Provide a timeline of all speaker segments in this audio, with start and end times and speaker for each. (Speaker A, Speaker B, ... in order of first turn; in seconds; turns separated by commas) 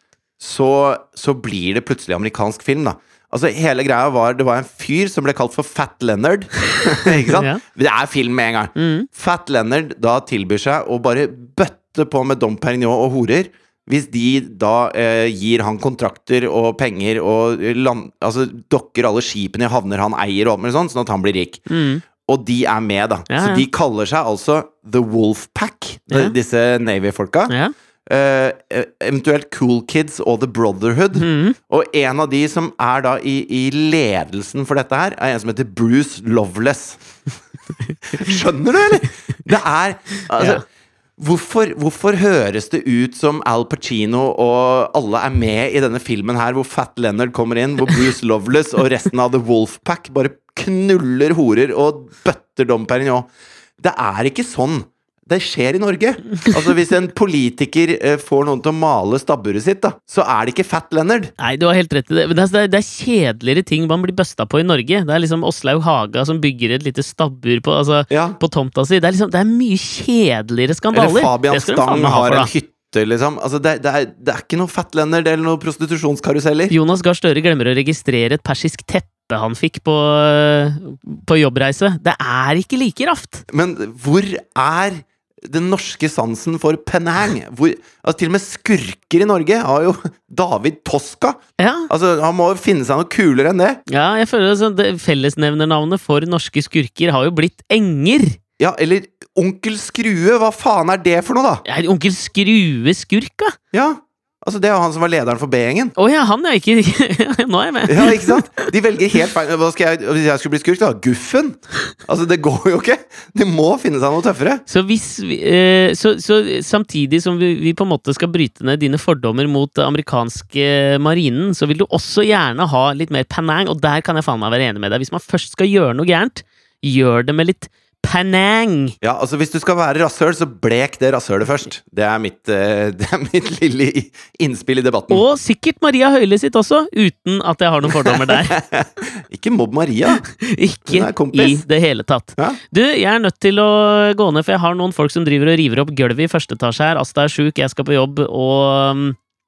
Speaker A: 0.4-21.7, Speaker B: 6.8-7.6, Speaker B: 8.8-9.1, Speaker B: 21.7-22.0, Speaker A: 22.2-27.5, Speaker B: 23.3-23.7, Speaker A: 28.1-37.0, Speaker B: 31.2-31.6, Speaker A: 38.1-40.6, Speaker B: 40.4-40.6, Speaker A: 41.2-53.3, Speaker A: 53.8-61.3, Speaker B: 61.4-72.5, Speaker A: 68.1-68.4, Speaker A: 70.9-76.7, Speaker B: 76.7-83.5, Speaker A: 83.5-93.8, Speaker B: 91.6-91.9, Speaker B: 93.9-98.4, Speaker A: 98.6-101.6, Speaker B: 101.7-103.6, Speaker A: 103.7-105.9, Speaker B: 106.0-108.7, Speaker A: 107.9-114.6, Speaker B: 114.7-128.9, Speaker A: 129.0-135.2, Speaker B: 135.1-138.6, Speaker A: 137.9-140.2, Speaker B: 140.2-149.2, Speaker A: 140.9-141.6